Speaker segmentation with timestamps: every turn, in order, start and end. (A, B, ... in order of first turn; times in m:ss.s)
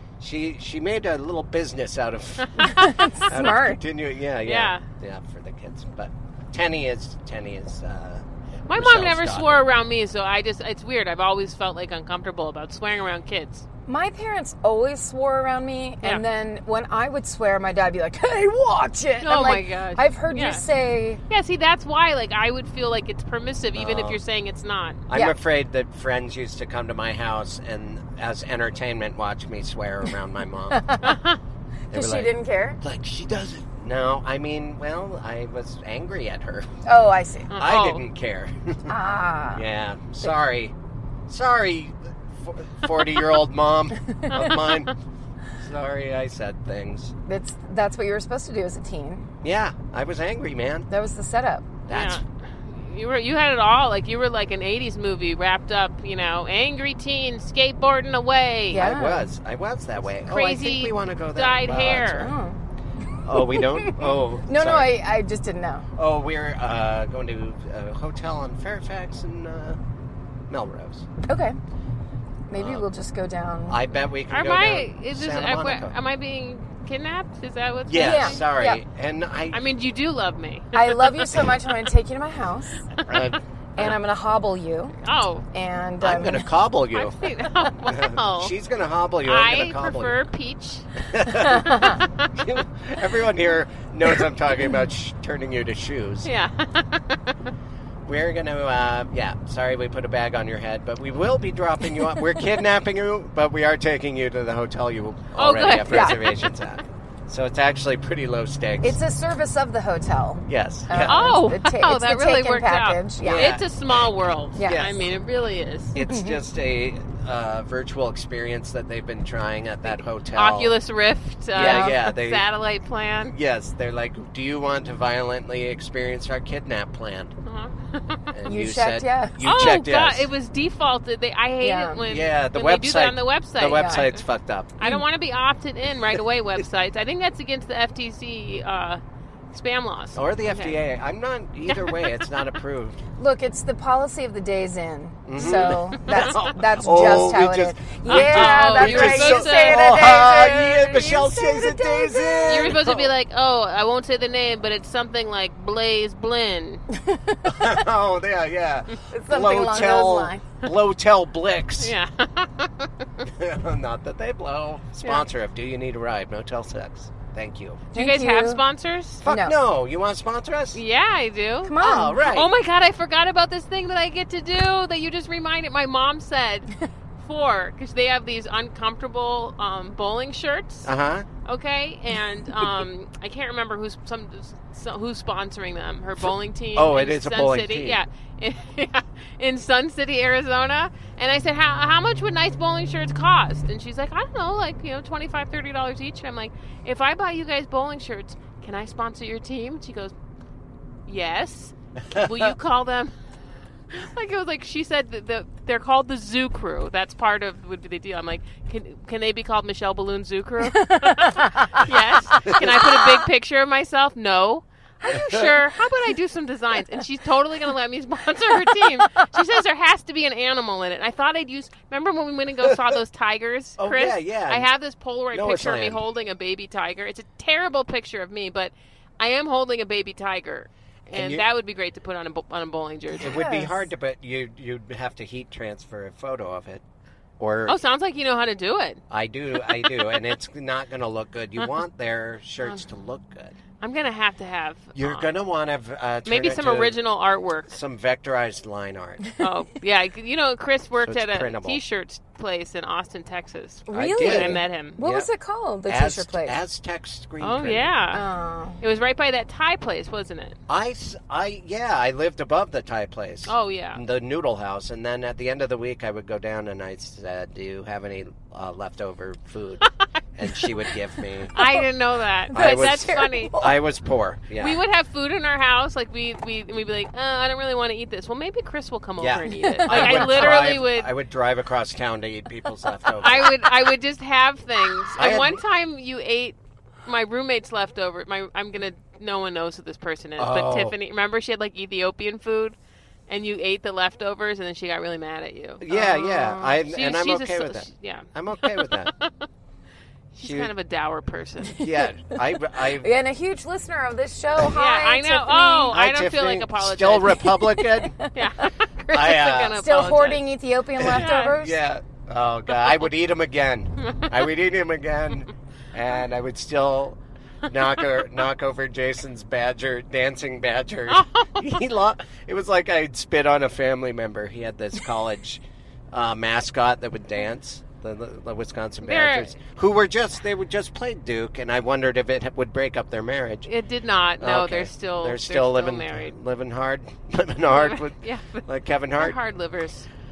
0:00.2-0:09.6 A
0:02.4-0:02.7 B
0:02.6-0:03.8 C
0:04.4-0:04.8 B
0:08.7-0:13.6 B
0:13.9-0:21.2 C
0:19.2-0:20.6 B
0:21.3-0:25.0 B
0:23.7-0:24.2 A
0:25.1-0:31.0 A
0:25.1-0:25.4 C
0:30.7-0:31.2 C
0:31.0-0:31.4 B
0:31.9-0:32.8 C
0:31.9-0:36.7 A
0:36.8-0:37.5 C
0:37.5-0:38.0 B
0:37.6-0:38.9 A
0:38.9-0:39.6 C
0:39.6-0:40.7 A
0:41.3-0:44.9 A
0:44.3-0:44.9 B
0:45.6-0:47.1 A
0:47.3-0:49.3 C
0:49.4-0:50.9 A
0:50.9-0:51.7 C
0:51.9-0:52.2 A
0:51.9-0:58.9 B
0:58.7-0:59.3 C
0:58.7-1:02.3 A
1:00.2-1:02.3 B
1:02.2-1:02.6 C
1:03.2-1:05.0 A
1:03.3-1:05.9 C
1:06.0-1:09.8 A
1:10.5-1:11.1 A
1:11.3-1:11.6 C
1:12.5-1:13.8 C
1:12.5-1:12.8 A
1:13.7-1:16.0 A
1:14.3-1:18.4 B
1:17.9-1:19.6 A
1:18.0-1:18.8 C
1:19.5-1:21.5 B
1:20.7-1:22.9 C
1:23.1-1:24.0 A
1:23.8-1:25.0 C
1:25.0-1:25.4 B
1:25.5-1:26.5 C
1:26.0-1:27.2 A
1:26.9-1:28.5 B
1:27.8-1:30.2 A
1:29.2-1:32.3 B
1:31.1-1:36.3 A
1:31.4-1:32.0 C
1:36.2-1:37.3 B
1:38.1-1:49.0 A
1:45.4-1:46.5 B
1:45.9-1:46.2 C
1:48.8-1:53.6 C
1:50.5-1:51.3 A
1:51.0-1:56.0 B
1:53.2-1:53.6 A
1:54.6-1:54.9 C
1:54.6-1:55.0 A
1:56.0-2:00.8 A
1:56.0-1:56.4 C
2:00.3-2:03.4 B
2:01.5-2:02.5 A
2:01.6-2:02.0 C
2:03.3-2:07.3 A
2:07.4-2:08.3 B
2:08.3-2:10.3 A
2:08.5-2:09.4 C
2:09.4-2:14.2 B
2:11.6-2:12.0 C
2:12.0-2:14.8 A
2:13.7-2:14.0 C
2:14.8-2:20.8 B
2:20.2-2:23.0 A
2:21.7-2:22.3 B
2:23.2-2:32.8 C
2:25.3-2:33.1 A
2:25.4-2:26.4 B
2:28.1-2:30.3 B
2:32.5-2:36.8 B
2:36.9-2:37.7 C
2:37.4-2:42.0 A
2:39.1-2:40.4 C
2:41.8-2:42.9 B
2:43.2-2:47.8 A
2:47.9-2:48.6 C
2:47.9-2:49.2 B
2:49.2-2:50.8 A
2:49.2-2:49.6 C
2:50.8-3:00.9 B
2:51.6-2:52.3 C
2:51.8-2:52.5 A
3:00.8-3:01.3 A
3:01.4-3:20.1 B
3:06.2-3:08.0 A
3:21.1-3:23.1 B
3:22.1-3:22.4 A
3:23.9-3:53.5 B
3:30.7-3:33.1 C
3:32.5-3:32.7 A
3:43.8-3:44.7 A
3:45.3-3:46.0 A
3:51.1-3:51.4 A
3:53.2-3:53.7 C
3:53.2-3:56.8 A
3:57.4-3:57.8 A
3:57.7-3:59.0 B
3:59.1-4:03.6 A
3:59.7-4:00.2 B
4:03.8-4:05.4 B
4:05.0-4:07.0 A
4:06.3-4:07.8 B
4:07.7-4:09.2 A
4:09.4-4:15.0 B
4:11.0-4:11.8 A
4:13.9-4:16.6 C
4:13.9-4:15.3 A
4:15.9-4:18.0 A
4:17.4-4:18.2 B
4:18.1-4:18.8 C
4:18.8-4:20.6 B
4:20.7-4:29.8 A
4:23.5-4:24.0 B
4:30.4-4:31.6 A
4:31.5-4:33.6 B
4:32.5-4:33.7 C
4:32.5-4:34.8 A
4:34.6-4:41.1 B
4:39.2-4:43.6 A
4:39.5-4:40.5 C
4:43.2-4:52.8 B
4:45.2-4:45.6 A
4:50.4-4:51.0 A
4:53.3-4:59.5 B
4:55.8-4:59.1 A
4:55.9-4:56.7 C
5:00.3-5:01.9 B
5:00.4-5:00.7 A
5:01.8-5:03.1 A
5:03.0-5:05.9 C
5:04.6-5:07.6 B
5:05.9-5:08.2 A
5:08.0-5:08.3 C
5:08.3-5:10.4 B
5:09.1-5:10.0 A
5:09.8-5:11.8 C
5:11.0-5:33.7 A
5:11.0-5:11.6 B
5:14.0-5:14.3 B
5:21.1-5:21.8 B
5:29.0-5:29.6 B
5:33.7-5:36.4 B
5:34.4-5:39.4 A
5:37.7-5:40.1 B